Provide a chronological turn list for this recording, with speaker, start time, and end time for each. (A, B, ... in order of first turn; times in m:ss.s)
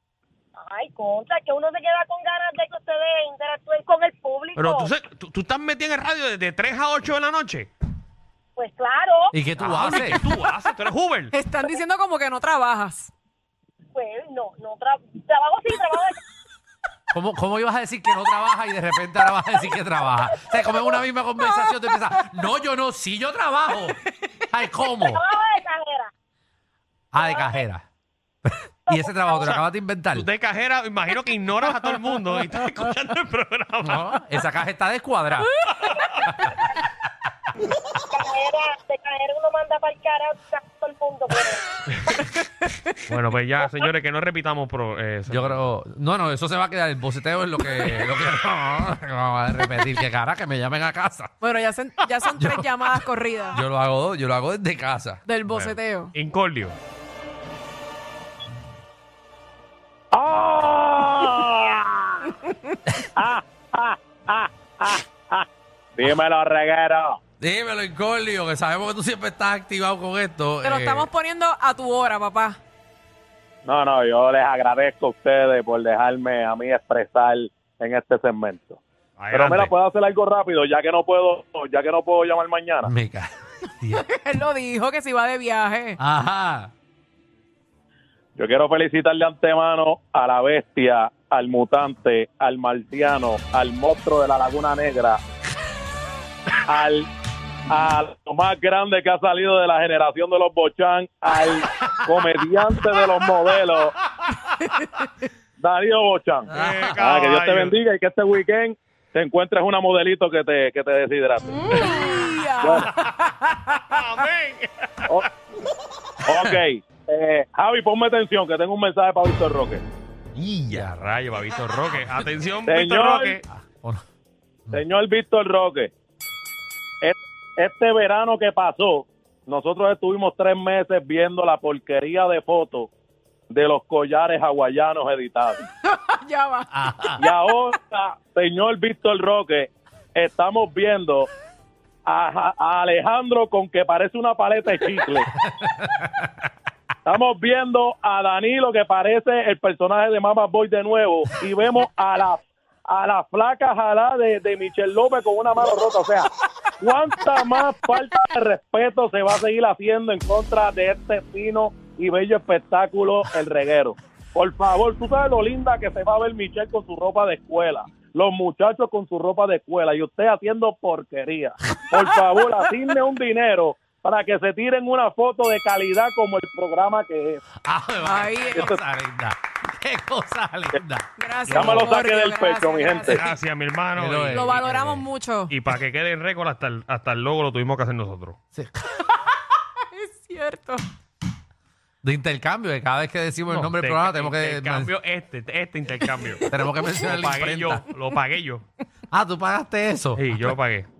0:00.6-0:04.9 A
0:04.6-0:07.7 B
0:08.6-0:09.3 A
0:09.3-0:10.2 C
0:09.6-0:11.3 B
0:11.3-0:13.1 D
0:13.9-0:16.2 A
0:17.1-0:25.2 C
0:24.9-0:26.1 A
0:27.1-0:27.8 C
0:27.2-0:27.6 A
0:28.4-0:30.3 C
0:28.9-0:29.3 A
0:30.1-0:34.1 B
0:33.8-0:35.6 C
0:35.6-0:36.2 B
0:36.2-0:36.6 C
0:38.1-0:41.6 A
0:43.1-0:45.6 B
0:45.3-0:51.3 C
0:51.4-0:53.6 D
0:52.3-0:55.2 C
0:55.3-0:56.1 D
0:55.5-0:56.7 B
1:00.1-1:02.2 E
1:03.2-1:07.2 E
1:07.4-1:11.1 C
1:10.6-1:12.6 D
1:13.6-1:18.8 E
1:19.2-1:19.7 B
1:19.3-1:22.9 E
1:22.8-1:24.0 C
1:23.9-1:26.0 D
1:26.0-1:26.7 C
1:28.4-1:35.2 E
1:36.7-1:37.1 E
1:37.7-1:43.9 E
1:41.6-1:43.1 C
1:45.6-1:51.8 E
1:46.5-1:47.0 C
1:46.5-1:47.7 B
1:51.6-1:53.8 D
1:52.6-1:52.9 E
1:53.7-1:55.2 B
1:56.2-1:59.8 E
2:00.3-2:03.4 B
2:00.7-2:01.1 C
2:02.6-2:03.4 E
2:03.7-2:04.0 C
2:04.7-2:05.9 E
2:07.0-2:12.9 E
2:13.5-2:15.6 E
2:15.8-2:16.7 D
2:16.7-2:17.2 C
2:17.2-2:21.3 E
2:22.0-2:25.3 E
2:25.3-2:26.3 C
2:27.0-2:36.3 E
2:36.8-2:57.4 E
2:51.9-2:52.5 D
2:57.6-3:01.9 C
2:58.0-2:58.8 D
3:01.2-3:03.4 D
3:01.5-3:03.2 E
3:03.1-3:08.4 B
3:04.0-3:04.5 C
3:04.3-3:05.5 D
3:08.5-3:09.1 C
3:09.9-3:10.8 D
3:12.0-3:14.9 C
3:13.5-3:18.6 B
3:16.5-3:17.8 C
3:19.1-3:20.6 C
3:20.2-3:20.9 B